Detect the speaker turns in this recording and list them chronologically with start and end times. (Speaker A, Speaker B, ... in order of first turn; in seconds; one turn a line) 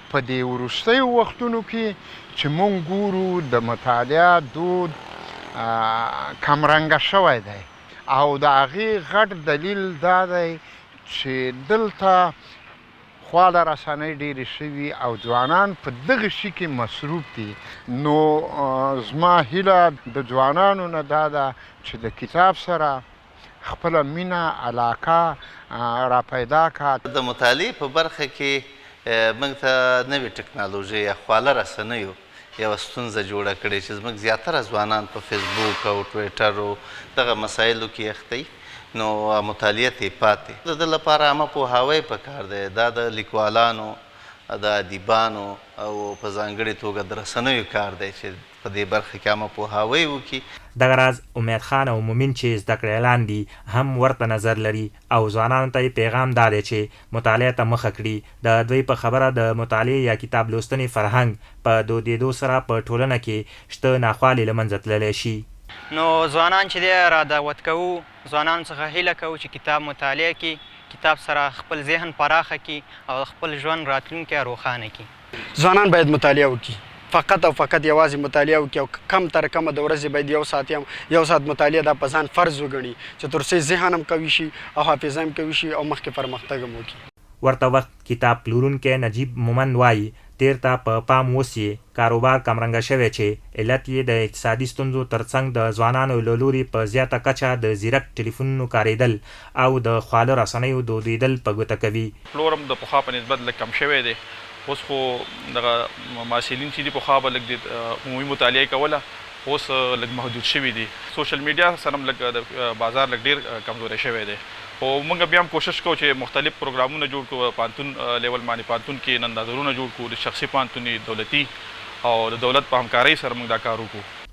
Speaker A: 0.1-5.0
Speaker A: 5.5-12.3
Speaker A: 13.2-23.0
Speaker A: 23.6-27.0
Speaker B: 27.1-44.0
Speaker B: 44.5-50.4
Speaker C: 50.8-65.4
Speaker D: 65.9-75.1
Speaker E: 75.5-87.0
Speaker C: 87.4-102.1
Speaker F: 102.3-121.5
Speaker F: 122.0-124.1